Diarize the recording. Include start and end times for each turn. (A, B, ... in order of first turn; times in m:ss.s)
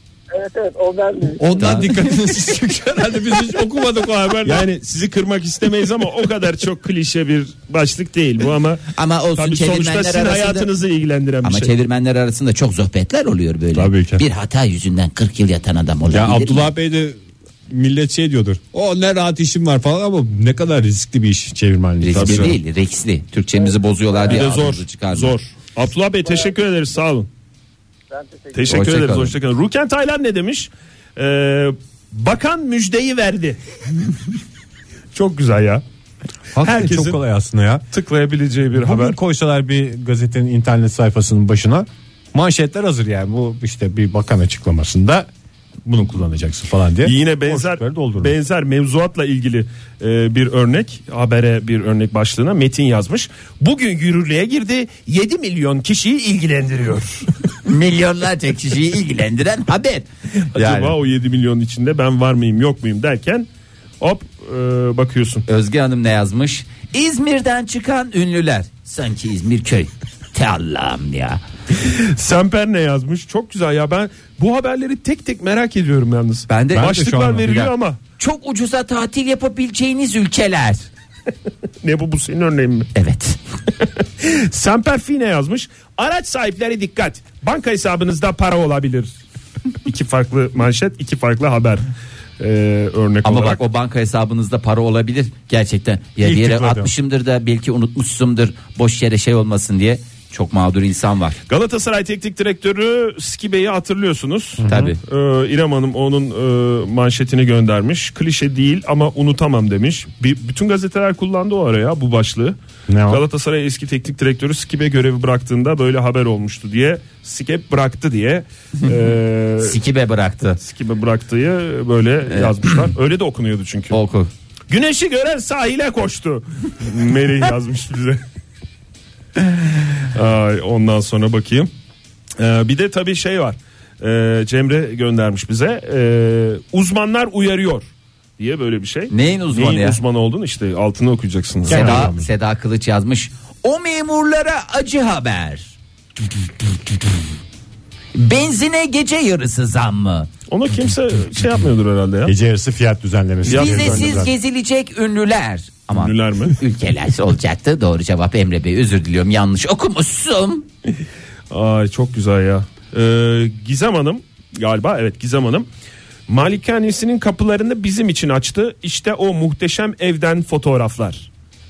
0:00.3-0:01.7 A
0:01.4-0:04.6 B
0:01.6-0:01.9 C
0:04.2-0:11.7 D
0:08.9-0:10.7 C
0:11.4-0:16.7 C
0:13.7-0:14.2 B
0:16.1-0:22.5 B
0:22.0-0:25.3 C
0:22.1-0:22.6 D
0:24.2-0:27.3 D
0:28.1-0:28.8 A
0:28.5-0:33.6 D
0:28.7-0:29.3 C
0:35.1-0:35.8 D
0:36.5-0:37.8 B
0:36.6-0:37.2 D
0:37.9-0:39.2 D
0:38.8-0:45.3 B
0:45.8-0:48.3 B
0:47.0-0:57.3 D
0:57.6-1:00.9 C
1:00.5-1:03.5 D
1:04.0-1:05.4 D
1:05.5-1:11.4 C
1:11.8-1:18.0 D
1:16.5-1:17.0 C
1:16.7-1:17.7 B
1:18.2-1:20.9 C
1:21.8-1:22.9 D
1:22.9-1:23.4 C
1:24.2-1:29.1 D
1:29.8-1:33.6 D
1:33.2-1:41.4 C
1:36.2-1:36.9 B
1:41.5-1:52.6 D
1:44.6-1:44.9 B
1:44.7-1:45.0 C
1:52.9-1:53.2 B
1:53.1-1:59.8 D
1:59.6-2:00.6 C
2:00.6-2:04.0 D
2:02.3-2:02.6 C
2:03.9-2:04.3 C
2:04.7-2:08.2 D
2:10.1-2:11.7 D
2:12.4-2:17.9 D
2:18.4-2:22.1 D
2:19.1-2:20.0 C
2:21.7-2:22.3 B
2:21.7-2:25.8 C
2:28.1-2:30.3 C
2:30.5-2:32.3 D
2:32.2-2:34.3 B
2:33.4-2:34.2 D
2:33.5-2:40.6 C
2:35.9-2:36.6 D
2:41.5-2:45.7 D
2:46.3-2:51.3 D